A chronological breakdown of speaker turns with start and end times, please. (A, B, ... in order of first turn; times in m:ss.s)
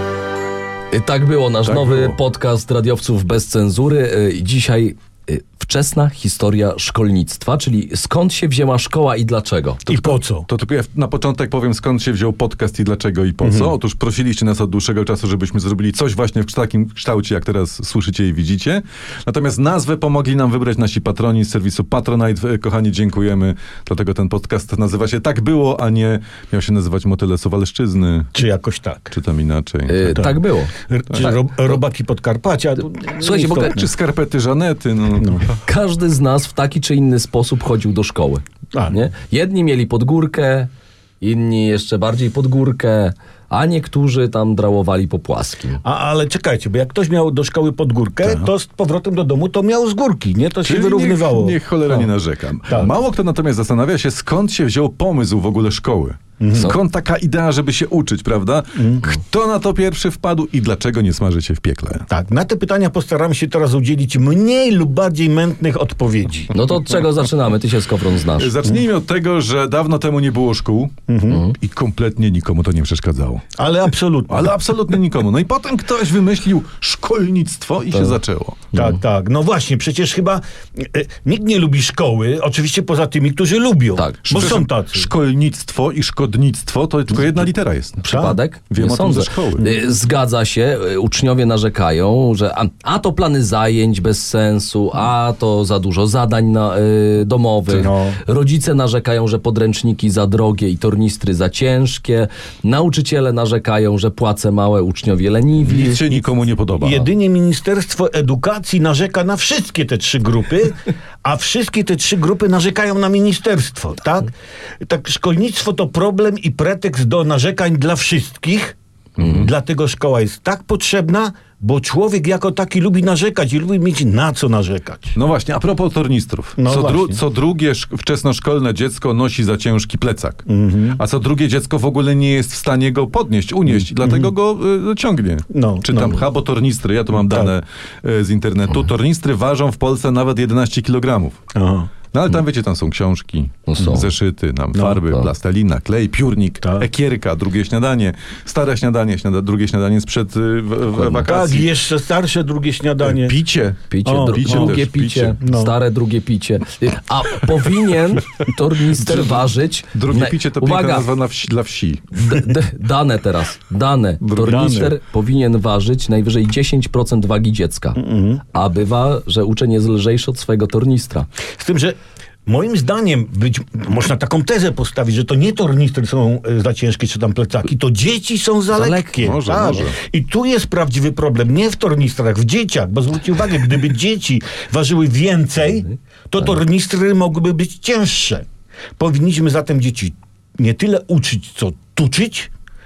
0:00.9-0:10.0 A
0:01.6-0:02.2 B
0:09.9-0:10.5 C
0:10.5-0:28.4 B
0:13.4-0:13.7 C
0:28.3-0:29.1 C
0:29.1-0:30.3 B
0:29.9-0:31.8 A
0:30.2-0:33.8 C
0:33.1-0:33.8 A
0:33.6-0:35.6 B
0:35.2-0:35.4 C
0:35.7-0:40.7 A
0:41.2-0:45.8 A
0:45.8-0:52.1 C
0:50.6-1:02.1 B
0:52.7-0:52.9 C
0:56.4-0:56.8 C
0:58.8-0:59.1 C
1:02.1-1:06.5 C
1:06.5-1:08.5 A
1:08.4-1:11.0 B
1:11.1-1:11.4 C
1:11.6-1:13.5 B
1:13.6-1:14.6 C
1:14.3-1:18.6 B
1:18.7-1:25.1 C
1:24.0-1:24.2 A
1:24.3-1:28.1 B
1:28.0-1:46.0 A
1:28.0-1:28.4 C
1:28.7-1:29.7 B
1:29.6-1:29.8 C
1:37.7-1:38.2 C
1:45.6-1:47.0 B
1:46.8-1:58.8 C
1:59.2-1:59.5 B
1:59.3-2:05.2 C
2:05.2-2:21.4 B
2:06.6-2:07.2 C
2:10.5-2:11.0 C
2:13.7-2:14.3 C
2:15.5-2:16.2 C
2:17.2-2:17.5 C
2:21.5-2:21.9 C
2:22.1-2:31.7 B
2:23.7-2:24.1 A
2:24.7-2:25.0 C
2:26.6-2:26.9 C
2:31.2-2:33.4 C
2:33.0-2:35.4 B
2:33.9-2:41.1 A
2:34.0-2:34.8 C
2:35.4-2:35.7 C
2:38.9-2:42.3 B
2:42.1-2:48.0 A
2:44.2-2:44.8 B
2:44.4-2:45.0 C
2:48.0-2:48.4 C
2:48.5-2:51.3 A
2:51.6-3:08.5 C
2:58.7-2:59.8 A
2:59.2-3:00.0 B
3:09.0-3:12.5 C